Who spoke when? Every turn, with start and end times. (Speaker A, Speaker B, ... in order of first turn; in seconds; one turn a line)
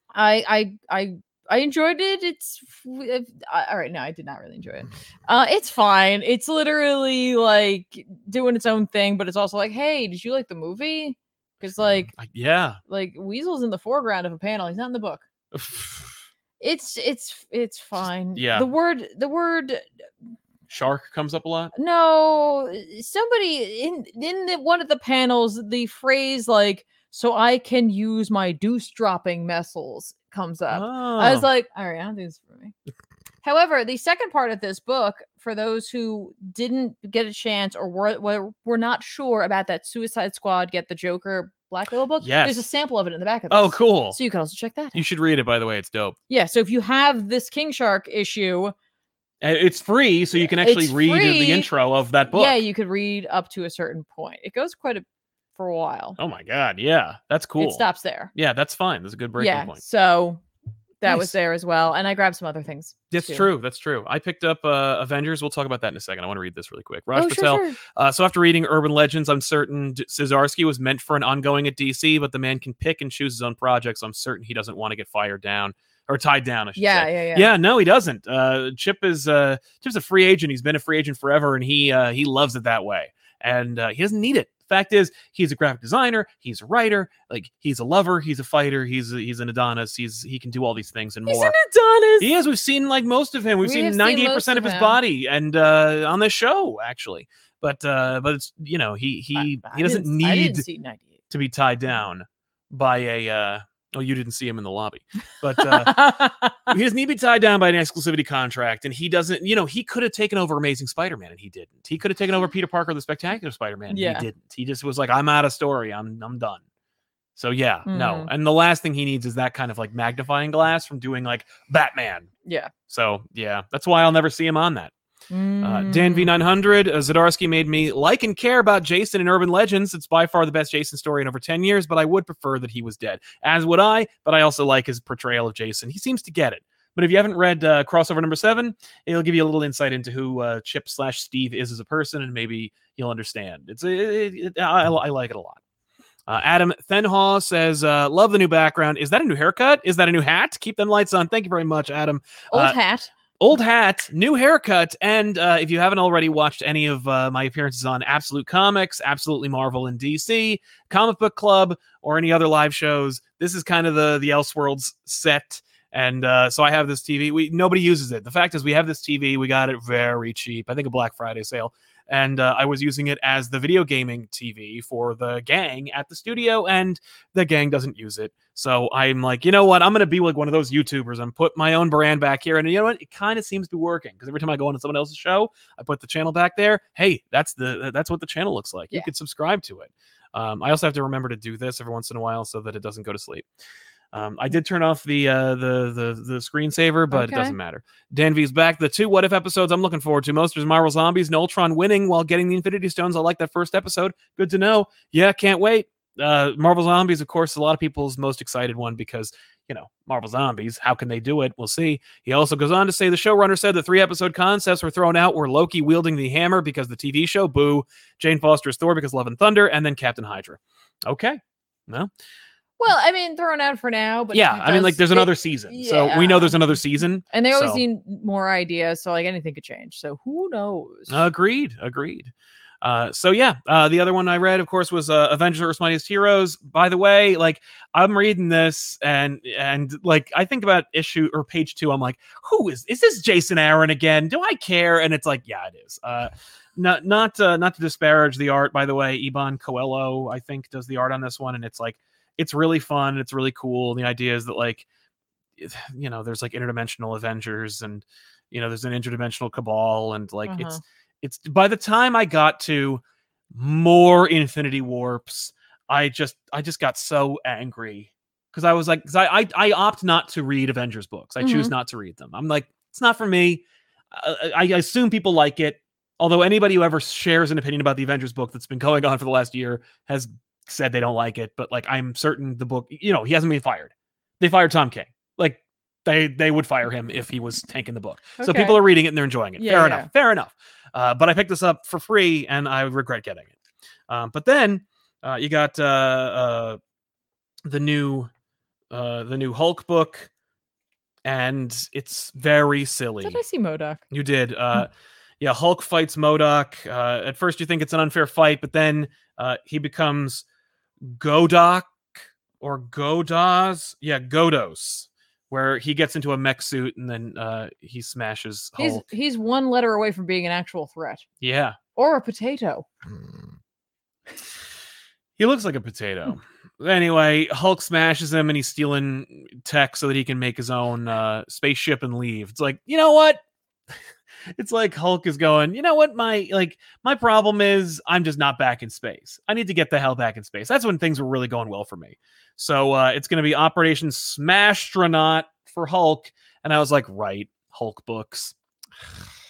Speaker A: 0.1-12.1
Speaker B: 12.1-12.8
Speaker A: 12.9-15.2
Speaker B: 15.5-16.1
Speaker A: 16.6-19.9
Speaker B: 18.4-18.7
Speaker B: 20.7-21.7
Speaker A: 21.8-32.7
Speaker B: 30.7-31.5
Speaker A: 33.4-45.0
Speaker B: 42.2-42.6
Speaker B: 43.5-44.2
Speaker B: 44.9-46.2
Speaker A: 46.3-48.7
Speaker B: 49.4-52.6
Speaker A: 50.4-51.7
Speaker A: 52.3-55.0
Speaker A: 55.6-56.2
Speaker B: 56.2-59.8
Speaker A: 57.6-58.3
Speaker A: 59.4-60.4
Speaker A: 61.0-63.5
Speaker B: 61.1-61.3
Speaker B: 63.1-91.5
Speaker A: 67.2-67.8
Speaker A: 76.8-77.5
Speaker A: 91.3-92.3
Speaker B: 92.2-100.7
Speaker A: 93.6-95.0
Speaker A: 99.3-101.2
Speaker B: 101.3-106.0
Speaker A: 105.6-106.8
Speaker B: 106.7-116.6
Speaker A: 113.9-114.3
Speaker B: 117.4-122.3
Speaker A: 117.9-118.3
Speaker A: 122.4-122.7
Speaker B: 122.9-124.9
Speaker A: 125.3-126.3
Speaker B: 125.6-145.6
Speaker B: 146.3-152.8
Speaker A: 152.5-153.1
Speaker B: 153.4-193.4
Speaker B: 194.1-222.1
Speaker A: 197.1-197.6
Speaker A: 222.8-226.6
Speaker B: 224.3-227.8
Speaker A: 227.3-231.2
Speaker B: 231.1-254.9
Speaker B: 255.6-293.5
Speaker A: 260.5-260.8
Speaker A: 271.4-271.7
Speaker A: 288.4-288.8
Speaker A: 289.6-290.1
Speaker B: 294.1-296.8
Speaker B: 297.7-298.3
Speaker B: 298.9-300.3
Speaker B: 301.2-303.4
Speaker A: 303.2-304.0
Speaker B: 304.1-310.4
Speaker B: 311.1-312.0
Speaker B: 312.6-319.1
Speaker A: 318.8-321.2
Speaker B: 321.4-321.8
Speaker A: 321.9-322.9
Speaker B: 325.4-333.4
Speaker B: 334.6-348.6